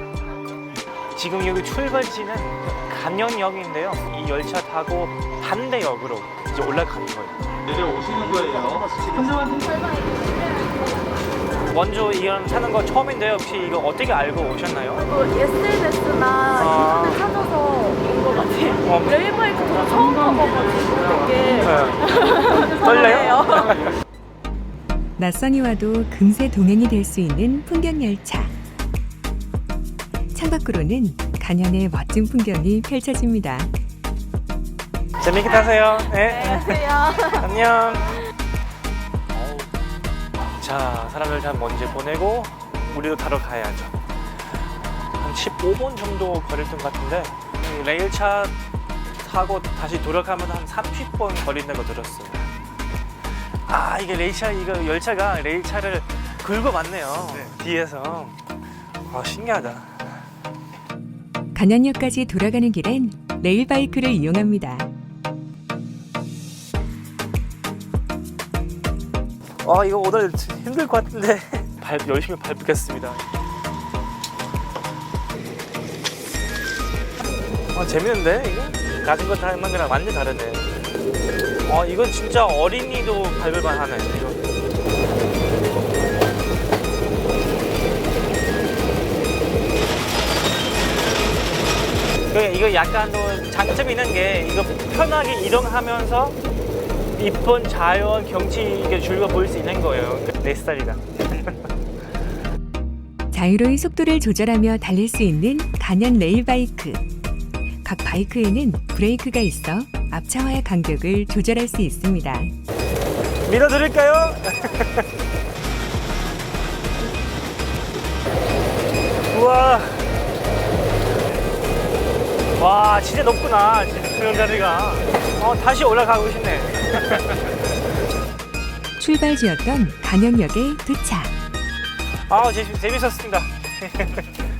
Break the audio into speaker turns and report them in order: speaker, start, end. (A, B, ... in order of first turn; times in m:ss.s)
0:01.2-0:09.4 A
0:11.6-0:15.1 A
0:15.2-0:18.8 B
0:16.5-0:17.3 A
0:18.8-0:19.8 A
0:19.3-0:21.5 B
0:21.0-0:23.9 A
0:22.2-0:22.8 B
0:25.2-0:28.6 C
0:30.3-0:33.7 C
0:35.2-0:38.2 A
0:39.3-0:39.7 A
0:40.6-0:44.0 A
0:45.2-0:48.6 A
0:49.2-0:52.5 A
0:53.7-0:58.4 A
0:59.1-1:00.2 A
1:01.6-1:04.9 C
1:09.6-1:13.2 A
1:17.7-1:20.7 A
1:21.6-1:24.4 A
1:32.3-1:36.4 A
1:37.2-1:41.6 A
1:43.3-1:47.0 C
1:47.8-1:52.5 C
1:53.5-1:55.1 A
1:59.3-2:00.2 A
2:02.6-2:07.4 A
2:09.0-2:11.3 C
2:12.3-2:14.4 A